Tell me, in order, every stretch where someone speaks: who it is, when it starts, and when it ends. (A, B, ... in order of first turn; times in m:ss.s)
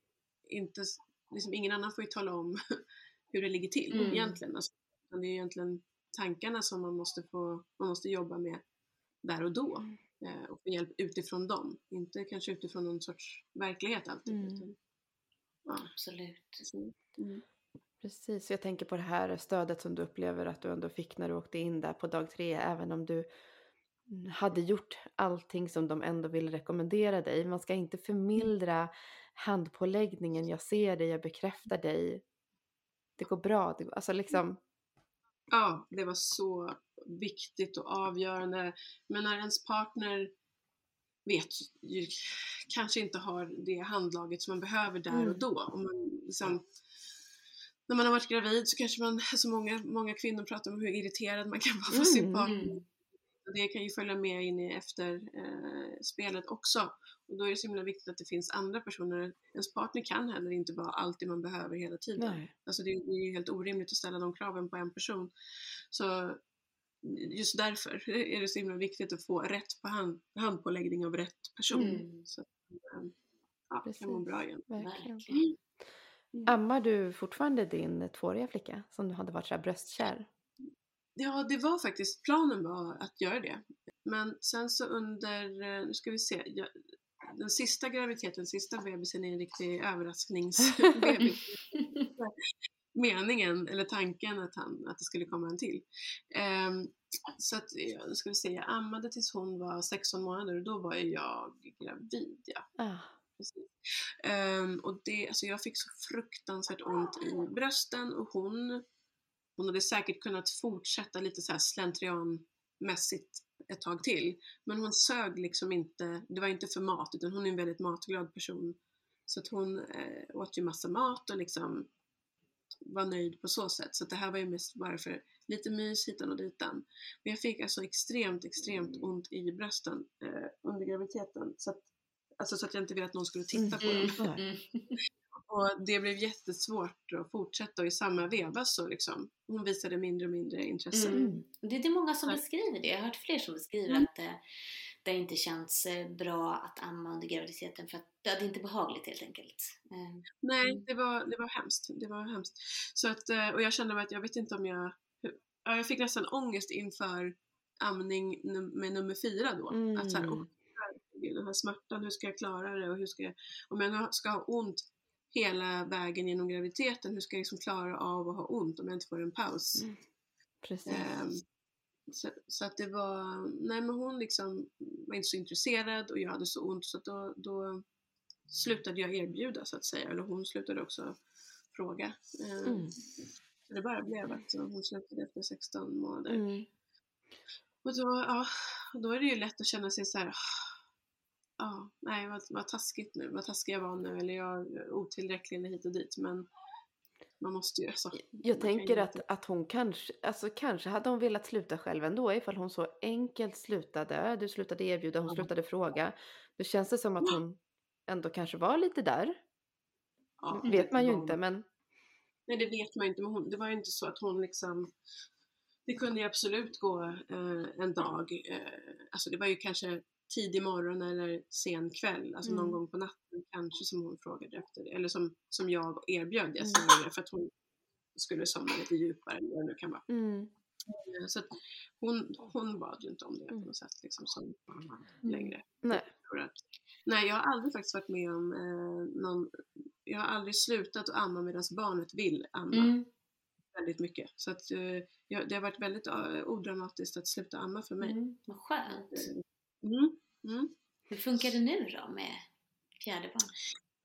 0:00.5-0:02.8 A
0:03.3-0:08.6 A
0:03.9-0:04.4 B
0:09.2-0:14.8 A
0:14.3-0:14.6 C
0:15.7-0:15.9 A
0:15.9-0:16.6 B
0:16.6-0:17.4 A
0:18.0-0:23.3 C
0:24.1-0:32.2 C
0:33.2-0:34.6 C
0:35.5-0:40.3 A
0:41.3-0:46.6 A
0:45.1-0:45.4 C
0:47.9-0:52.8 A
0:51.9-0:52.5 C
0:52.4-0:52.8 B
0:53.4-1:05.3 A
1:02.2-1:02.5 C
1:05.9-1:06.4 A
1:07.0-1:13.1 A
1:11.7-1:12.0 C
1:11.7-1:12.3 B
1:13.7-1:14.7 A
1:13.8-1:15.3 C
1:14.8-1:15.4 B
1:16.5-1:20.3 C
1:21.2-1:31.6 A
1:31.2-1:32.1 B
1:32.9-1:42.7 A
1:42.8-1:43.2 C
1:43.4-1:48.8 A
1:49.6-1:58.8 A
1:59.3-2:01.9 A
2:02.9-2:11.8 A
2:12.4-2:14.2 A
2:13.5-2:14.4 C
2:13.8-2:15.0 B
2:15.4-2:21.2 A
2:20.9-2:24.4 B
2:21.1-2:21.4 C
2:25.0-2:30.8 B
2:30.4-2:49.9 A
2:39.7-2:40.5 C
2:50.6-2:51.1 C
2:50.9-2:51.4 A
2:52.1-2:57.8 A
2:58.5-3:01.2 A
3:01.7-3:03.0 A
3:02.6-3:03.0 C
3:03.7-3:06.4 A
3:06.3-3:06.7 C
3:07.8-3:10.8 A
3:11.6-3:16.5 A
3:17.4-3:19.2 A
3:18.4-3:29.4 C
3:30.4-3:31.4 A
3:30.5-3:31.6 C
3:32.5-3:34.9 A
3:35.9-3:47.5 A
3:42.5-3:42.8 C
3:46.6-3:46.9 C
3:48.2-3:50.1 A
3:50.1-3:50.5 C
3:50.9-4:02.9 A
3:55.2-3:55.5 B
4:02.7-4:03.1 B
4:03.7-4:08.2 A
4:08.0-4:09.3 B
4:08.9-4:10.7 A
4:11.1-4:12.4 B
4:13.0-4:13.5 B